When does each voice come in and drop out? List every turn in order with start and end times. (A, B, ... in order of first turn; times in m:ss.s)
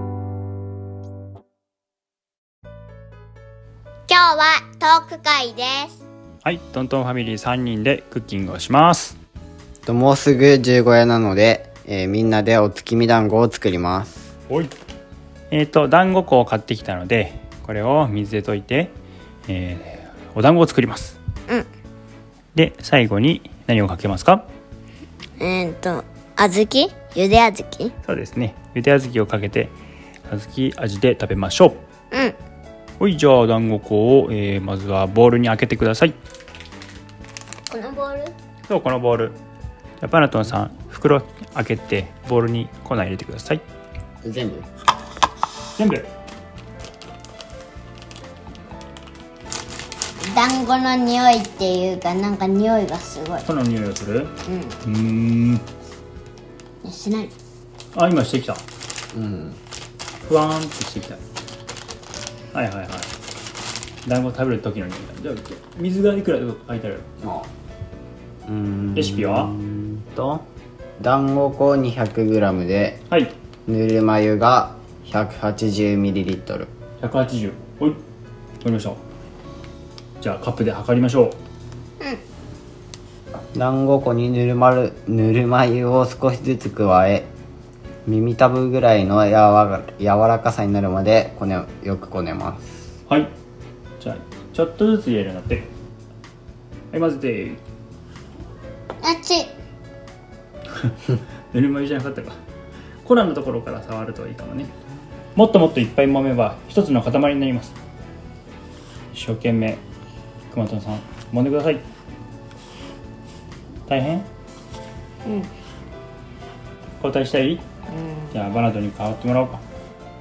0:04.1-0:06.0 A
0:06.4-0:09.2 B
0:09.8-0:14.3 C
0:15.5-0:18.9 B
0:19.5-0:21.2 B
0:22.5-0:24.4 B
0:25.4-0:27.9 A
0:28.0-0:29.7 B
0:30.3-0:31.8 B
0:32.1-0:32.4 A
0:33.0-0:36.2 B
0:37.7-0:38.3 A
0:38.7-0:39.4 B
0:40.0-0:43.6 B
0:44.2-0:44.7 C
0:45.8-0:46.1 B
0:50.2-0:53.4 A
0:53.4-0:55.6 B
0:54.4-0:54.8 A
0:56.8-0:57.3 A
0:57.9-0:58.6 B
0:59.1-0:59.6 C
1:00.2-1:01.2 B
1:02.5-1:03.1 B
1:04.0-1:07.1 B
1:07.2-1:07.5 C
1:08.4-1:10.4 C
1:08.9-1:09.5 B
1:11.0-1:13.0 C
1:13.7-1:16.7 C
1:17.0-1:18.0 B
1:18.6-1:19.0 B
1:20.2-1:21.4 B
1:23.5-1:27.3 C
1:28.0-1:32.8 C
1:34.0-1:35.7 B
1:36.9-1:37.6 B
1:39.0-1:39.5 A
1:40.7-1:42.4 B
1:43.0-1:44.7 B
1:45.4-1:47.8 B
1:49.1-1:49.8 B
1:50.5-1:51.8 B
1:53.9-1:54.3 B
1:57.0-1:57.6 B
1:57.9-1:58.3 A
1:58.3-1:59.6 B